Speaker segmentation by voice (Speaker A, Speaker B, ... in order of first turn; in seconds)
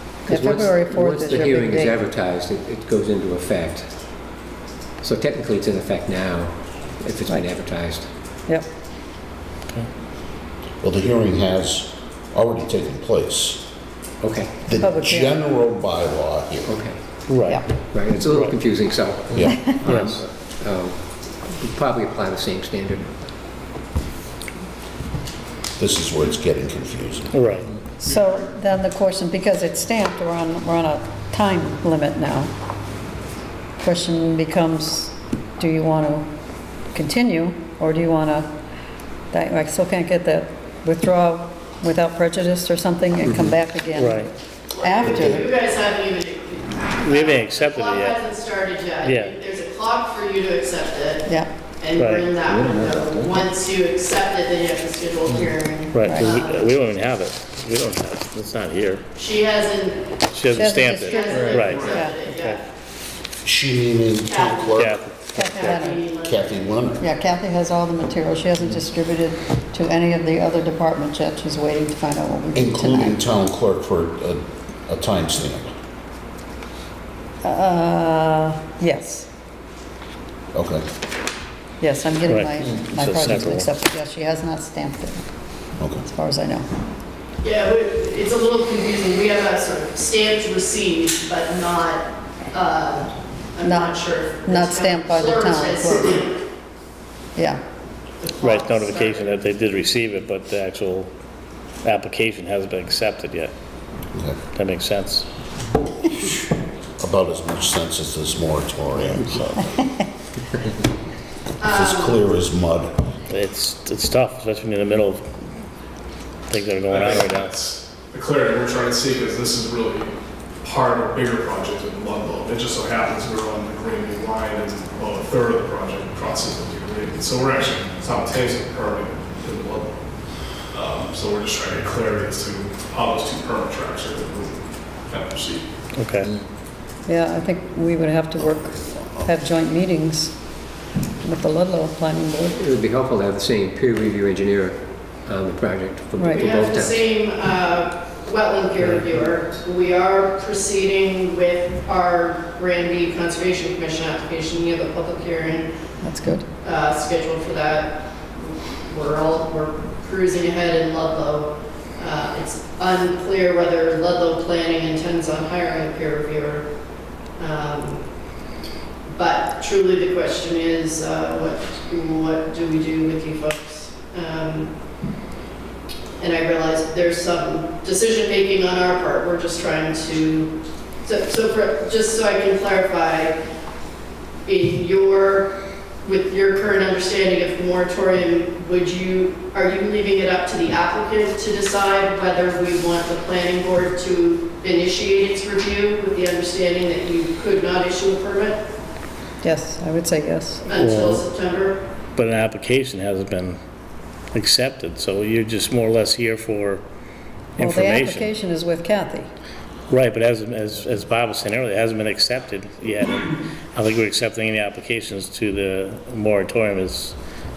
Speaker A: 0.3-3.9, 5.0-8.1, 14.2-14.8, 16.7-17.0, 17.8-23.3, 43.2-43.5, 52.5-53.4, 142.6-147.0
Speaker B: 0.3-2.0, 14.8-15.4, 28.0-32.5, 33.8-36.3, 36.9-38.5, 39.3-45.5, 56.0-56.3, 60.5-62.2, 65.3-66.0, 67.0-73.2, 77.4-79.3, 81.8-85.2, 86.0-86.7, 93.6-96.2, 97.4-97.6, 137.1-140.3, 141.2-142.6, 146.2-146.5, 156.0-156.5, 199.4-200.7, 207.6-209.3
Speaker C: 10.8-13.6, 14.7-16.8, 19.3-19.7, 25.8-27.4, 63.4-65.0, 66.2-67.0, 72.5-75.7, 80.5-80.9, 85.8-86.1, 107.0-109.8, 111.7-113.1
Speaker D: 17.3-17.7, 18.2-18.6, 19.8-20.2, 27.3-27.7, 43.9-44.3, 47.1-48.2, 49.0-49.3, 52.0-52.3, 55.9-59.0, 60.3-62.6, 64.8-65.6, 82.3-83.7, 98.4-101.1, 101.8-103.5, 104.5-105.3, 113.3-115.2, 116.5-117.5, 135.9-136.3, 200.7-201.2, 202.2-203.6, 204.3-206.8, 207.6-208.3, 209.9-217.2
Speaker E: 44.7-56.7, 59.1-60.1, 60.6-62.6, 64.2-66.6, 87.4-96.4, 98.2-99.3, 111.6-112.2, 146.3-155.7, 156.6-166.7, 167.4-168.0, 169.1-174.7, 176.2-180.5, 181.0-183.4, 184.5-185.5, 186.0-198.6, 200.7-201.8
Speaker F: 61.5-62.0, 116.9-130.0, 130.7-135.7